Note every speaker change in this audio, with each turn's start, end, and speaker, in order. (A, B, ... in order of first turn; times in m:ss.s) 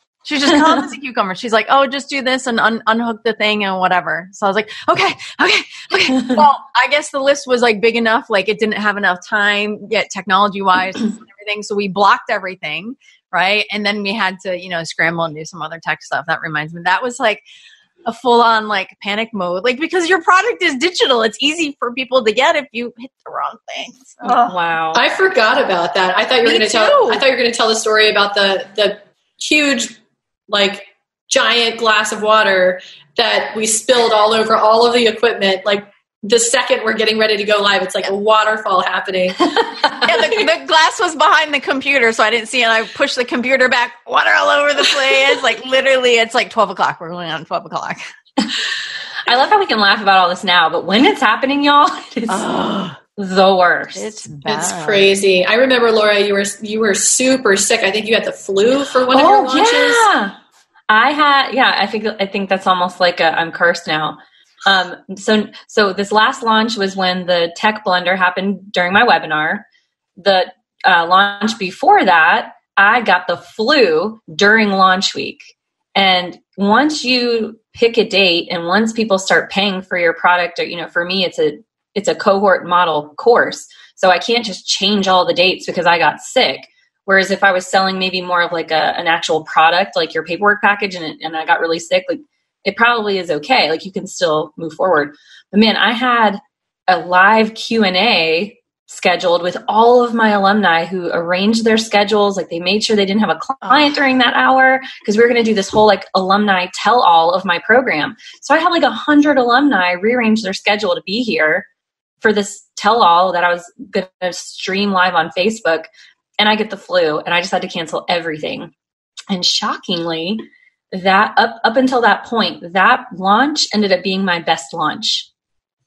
0:00.2-0:17.4 A
0:18.0-0:24.5 A
0:24.2-0:25.0 B
0:24.9-0:30.0 C
0:26.4-0:27.2 A
0:30.5-0:39.6 C
0:40.0-0:48.0 A
0:49.3-0:52.5 B
0:52.3-0:53.0 A
0:53.2-0:54.2 B
0:54.0-0:55.1 A
0:54.5-1:00.1 C
0:59.1-1:00.4 B
1:00.9-1:09.7 B
1:10.2-1:51.7 B
1:43.6-1:43.9 A
1:52.2-1:58.7 B
1:59.3-2:05.3 B